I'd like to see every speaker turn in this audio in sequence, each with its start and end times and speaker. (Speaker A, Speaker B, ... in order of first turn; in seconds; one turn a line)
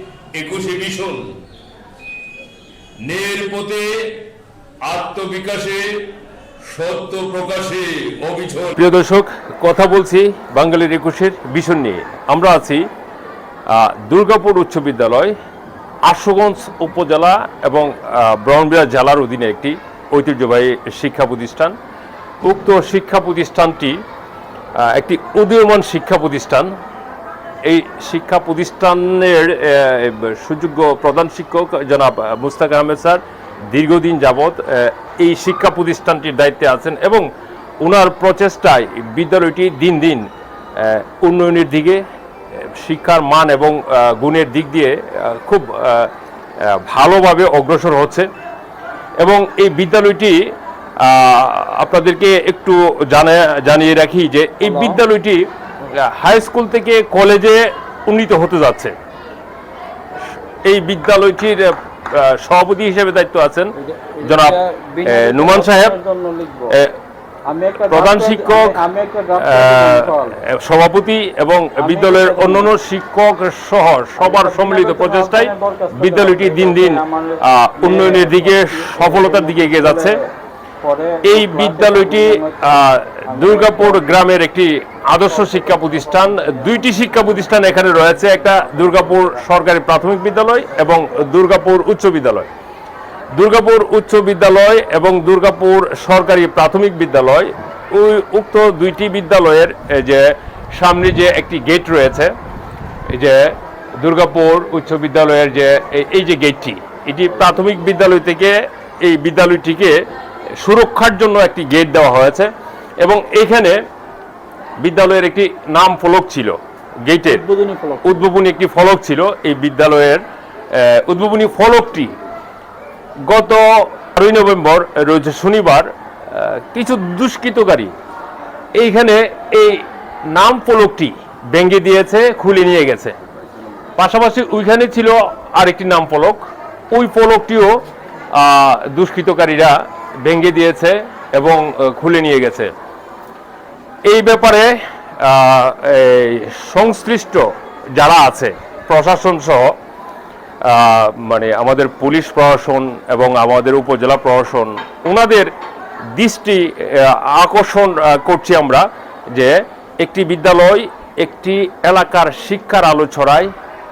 Speaker A: 0.3-1.2
Speaker A: 3.0-3.9
Speaker A: 4.9-5.8
Speaker A: 6.7-8.8
Speaker B: 8.8-12.9
Speaker B: 13.7-15.3
Speaker B: 16.1-21.8
Speaker B: 22.4-24.0
Speaker B: 24.8-26.7
Speaker B: 27.6-37.3
Speaker B: 37.8-40.2
Speaker B: 40.8-42.0
Speaker B: 42.8-46.1
Speaker B: 46.6-48.3
Speaker B: 49.2-50.4
Speaker B: 51.0-59.0
Speaker C: 54.7-54.9
Speaker B: 60.6-66.0
Speaker C: 64.0-66.7
Speaker B: 66.7-67.0
Speaker C: 67.5-70.3
Speaker B: 67.8-68.8
Speaker B: 69.4-80.2
Speaker C: 71.8-72.7
Speaker C: 74.2-80.2
Speaker C: 80.8-84.0
Speaker B: 81.2-92.5
Speaker B: 93.3-102.3
Speaker B: 103.1-103.4
Speaker B: 104.0-110.0
Speaker B: 110.6-113.8
Speaker B: 114.8-117.5
Speaker C: 117.3-118.2
Speaker B: 118.0-122.1
Speaker B: 123.3-127.9
Speaker B: 128.8-133.2
Speaker B: 134.0-142.7
Speaker B: 144.1-149.7
Speaker B: 150.6-155.5
Speaker B: 156.1-163.5